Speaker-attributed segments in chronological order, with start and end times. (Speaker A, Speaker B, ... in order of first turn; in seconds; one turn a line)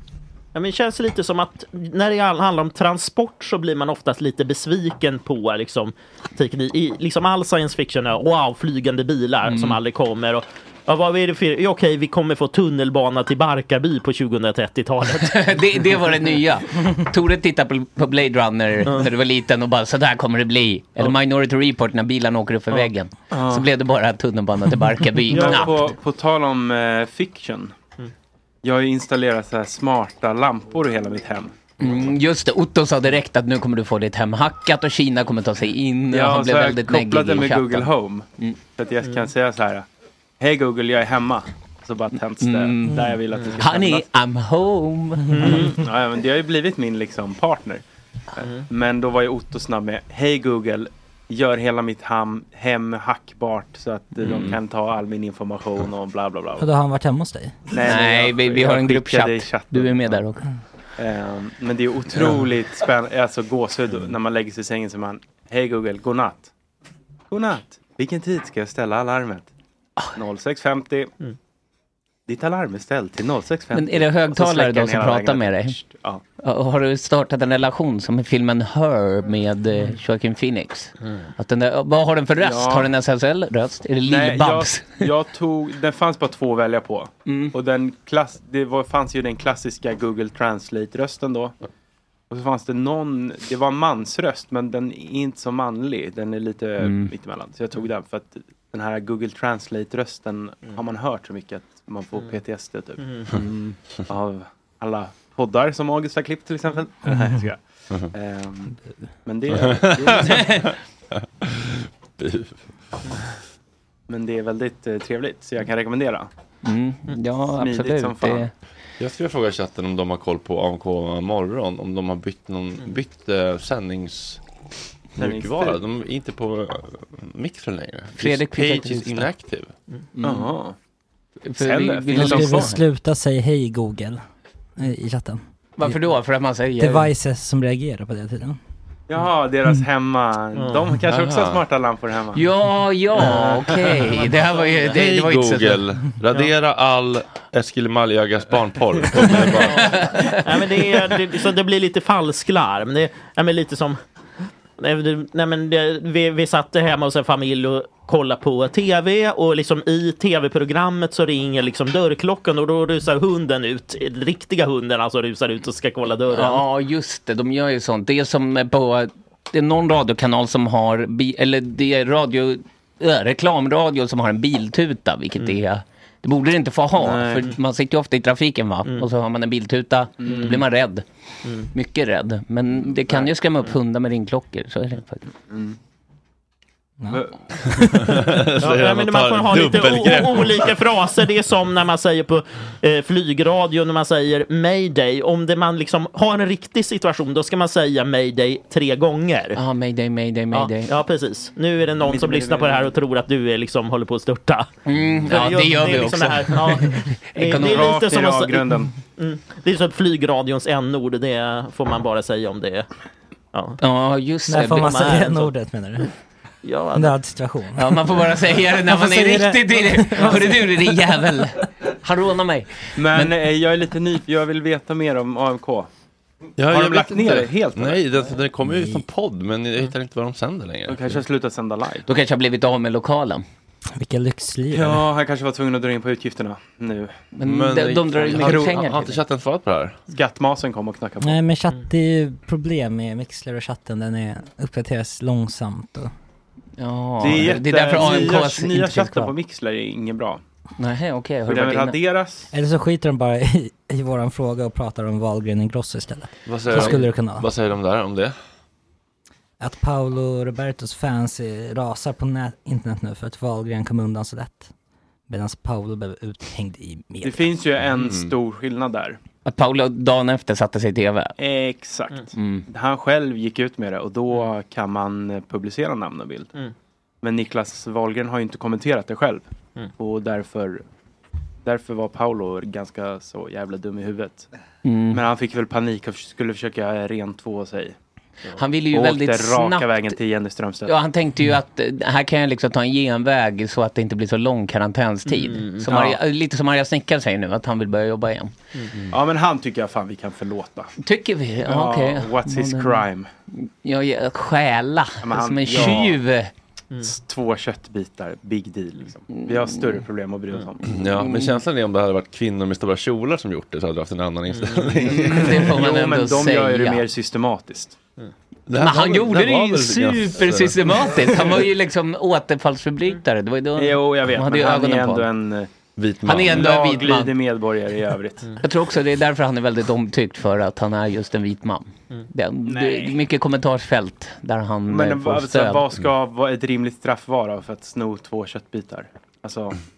Speaker A: 0.5-15.5
Speaker B: 9.5-9.8
Speaker B: 15.2-25.9
Speaker C: 23.3-23.7
Speaker A: 25.3-25.9
Speaker C: 25.3-27.7
Speaker C: 28.6-31.6
Speaker B: 31.8-38.6
Speaker C: 36.1-39.9
Speaker A: 39.0-39.3
Speaker C: 40.4-44.0
Speaker B: 42.4-45.7
Speaker A: 43.3-43.6
Speaker A: 45.3-45.7
Speaker C: 45.4-47.8
Speaker C: 48.4-56.7
Speaker A: 48.4-48.6
Speaker D: 56.6-57.6
Speaker C: 57.7-60.2
Speaker B: 57.8-60.5
Speaker C: 61.0-66.5
Speaker C: 67.3-69.5
Speaker C: 70.2-71.1
Speaker C: 72.3-76.2
Speaker B: 73.7-75.8
Speaker B: 76.4-85.0
Speaker C: 82.4-82.9
Speaker C: 84.0-91.5
Speaker B: 87.2-87.5
Speaker C: 92.3-103.1
Speaker B: 96.8-97.1
Speaker A: 103.0-103.3
Speaker C: 104.1-108.7
Speaker D: 107.1-107.4
Speaker C: 109.2-110.5
Speaker E: 109.6-110.7
Speaker B: 110.3-110.7
Speaker E: 111.2-112.6
Speaker C: 114.1-116.3
Speaker B: 116.6-118.5
Speaker C: 117.6-118.5
Speaker E: 119.0-124.4
Speaker E: 125.2-129.7
Speaker C: 125.2-125.8
Speaker B: 128.2-129.3
Speaker B: 130.2-130.5
Speaker C: 130.2-130.8
Speaker B: 131.5-132.8
Speaker C: 131.6-132.8
Speaker D: 132.1-134.2
Speaker D: 134.8-135.9
Speaker B: 135.8-137.1
Speaker D: 136.8-138.6
Speaker C: 139.1-142.4
Speaker A: 140.5-140.8
Speaker E: 141.1-141.6
Speaker B: 142.3-145.8
Speaker C: 143.2-144.0
Speaker E: 144.9-150.0
Speaker B: 149.3-150.4
Speaker A: 150.4-154.0
Speaker A: 154.8-166.6
Speaker B: 166.3-181.0
Speaker C: 177.0-177.5
Speaker C: 180.2-180.5
Speaker B: 181.7-185.2
Speaker C: 187.1-187.4
Speaker D: 187.8-188.1
Speaker E: 188.0-190.7
Speaker A: 188.6-199.6
Speaker B: 199.6-200.9
Speaker A: 200.5-204.7
Speaker C: 202.0-202.9
Speaker B: 204.8-207.9
Speaker A: 205.2-212.9
Speaker C: 207.6-208.9
Speaker A: 213.5-213.8
Speaker B: 213.8-215.1
Speaker D: 214.5-216.1
Speaker A: 214.8-215.5
Speaker A: 216.6-217.1
Speaker D: 216.9-220.4
Speaker B: 217.8-223.3
Speaker C: 223.0-225.9
Speaker E: 226.6-231.2
Speaker C: 226.7-228.0
Speaker D: 228.6-229.0
Speaker C: 230.9-232.0
Speaker B: 232.1-233.4
Speaker D: 234.0-235.1
Speaker C: 234.7-237.1
Speaker B: 237.3-239.2
Speaker E: 237.4-240.0
Speaker C: 238.3-238.8
Speaker C: 240.1-241.4
Speaker D: 241.2-246.1
Speaker B: 246.8-249.3
Speaker C: 247.2-250.4
Speaker B: 250.8-252.0
Speaker C: 251.4-252.5
Speaker D: 252.5-257.5
Speaker E: 256.4-258.3
Speaker B: 256.7-257.0
Speaker D: 259.6-264.7
Speaker D: 265.3-267.6
Speaker C: 267.2-269.2
Speaker E: 268.0-268.3
Speaker B: 269.4-271.3
Speaker C: 271.4-276.5
Speaker B: 272.3-272.6
Speaker C: 277.2-279.4
Speaker C: 280.0-280.8
Speaker C: 281.6-284.5
Speaker B: 284.8-285.2
Speaker C: 285.1-287.9
Speaker B: 288.6-290.2
Speaker C: 288.9-290.9
Speaker B: 290.9-298.5
Speaker A: 295.3-295.8
Speaker C: 295.9-296.2
Speaker C: 299.1-300.9
Speaker B: 301.0-306.5
Speaker C: 301.6-303.3
Speaker C: 305.2-306.2
Speaker C: 307.0-310.8
Speaker E: 310.8-315.6
Speaker B: 311.1-311.6
Speaker A: 314.5-314.9
Speaker B: 315.0-317.1
Speaker C: 315.1-318.0
Speaker E: 318.7-320.8
Speaker B: 318.7-325.3
Speaker C: 323.8-325.7
Speaker E: 325.9-326.7
Speaker B: 326.2-327.4
Speaker C: 326.5-328.5
Speaker B: 328.6-335.8
Speaker C: 334.9-339.8